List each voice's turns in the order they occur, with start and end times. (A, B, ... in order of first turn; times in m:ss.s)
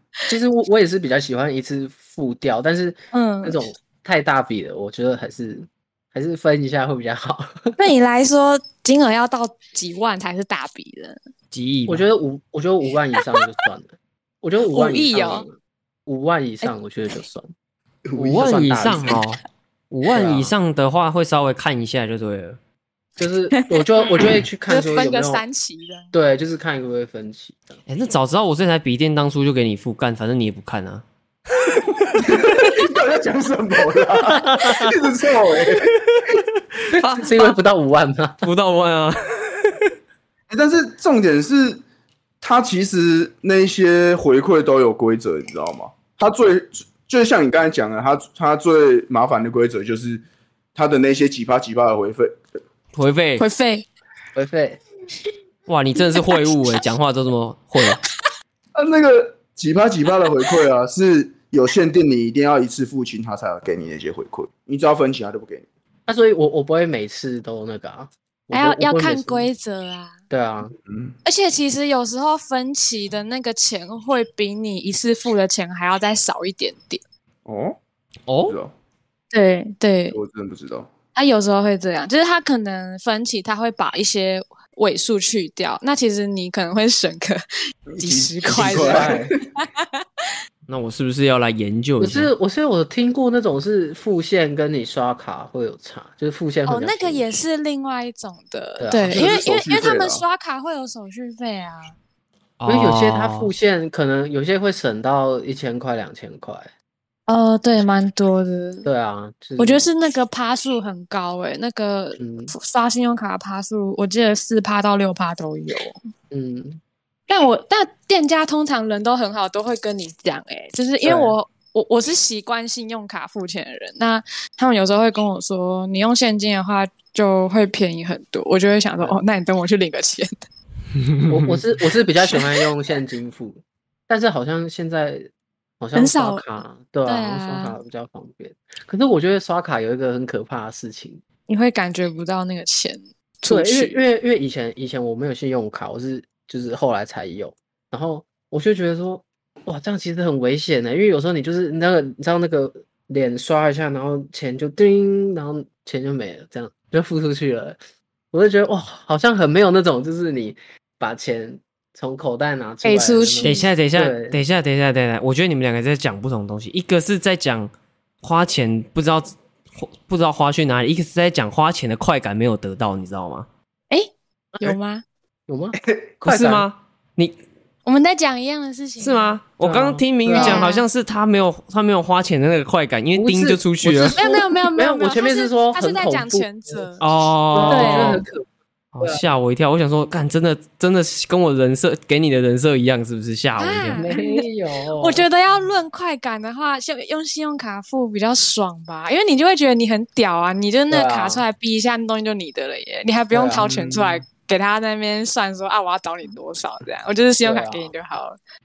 0:00.3-0:07.8 A
0:03.1-0:03.6 B
0:07.8-0:11.2 B
0:11.5-0:12.0 C
0:11.9-0:17.5 A
0:14.7-0:15.4 B
0:18.1-0:19.2 A
0:18.2-0:22.6 C
0:20.1-0:20.5 A
0:23.2-0:25.4 A
0:23.5-0:26.1 B
0:26.1-0:27.8 A
0:27.9-0:31.0 C
0:32.1-0:36.2 D
0:34.3-0:34.9 C
0:35.8-0:37.5 C
0:36.9-0:38.4 A
0:38.4-0:39.9 C
0:40.5-0:41.8 D
0:42.4-0:50.2 D
0:50.7-0:52.4 D
0:52.9-0:53.4 C
0:53.4-0:53.8 B
0:54.3-0:54.8 A
0:55.7-0:58.0 C
0:56.2-0:56.4 B
0:58.7-1:05.6 D
1:06.1-1:09.5 A
1:08.5-1:10.2 B
1:10.3-1:10.7 A
1:10.8-1:11.1 D
1:11.2-1:17.0 B
1:17.4-1:17.8 D
1:18.3-1:18.6 C
1:18.5-1:18.7 D
1:19.3-1:20.2 B
1:20.1-1:20.9 D
1:21.1-1:27.4 B
1:27.9-1:29.3 D
1:28.0-1:30.2 B
1:28.5-1:29.3 A
1:30.7-1:32.3 C
1:32.0-1:37.2 A
1:36.7-1:41.9 B
1:38.8-1:39.3 A
1:39.0-1:40.2 D
1:42.6-1:43.5 C
1:42.7-1:46.7 A
1:47.3-1:48.9 B
1:48.8-1:49.8 A
1:49.6-1:56.0 B
1:52.2-1:52.5 A
1:56.3-1:56.8 A
1:57.3-2:10.4 B
2:01.0-2:01.3 A
2:11.0-2:11.5 C
2:11.3-2:15.3 A
2:15.8-2:21.2 A
2:15.9-2:16.4 B
2:17.0-2:17.7 B
2:21.5-2:24.0 B
2:23.5-2:37.8 A
2:38.3-2:44.4 A
2:42.8-2:43.7 B
2:43.4-2:53.5 C
2:53.9-2:55.0 B
2:55.5-2:56.6 A
2:56.2-2:57.4 C
2:57.8-2:59.4 B
2:59.0-3:04.2 C
2:59.6-3:00.7 A
3:00.3-3:00.8 B
3:03.1-3:06.9 A
3:04.1-3:07.0 B
3:07.0-3:08.2 C
3:07.5-3:08.5 A
3:07.6-3:08.2 B
3:08.9-3:14.0 C
3:09.0-3:09.2 A
3:13.6-3:14.4 B
3:14.0-3:15.2 A
3:15.0-3:28.4 B
3:20.9-3:21.4 A
3:23.3-3:23.7 A
3:23.6-3:24.2 D
3:27.4-3:27.9 A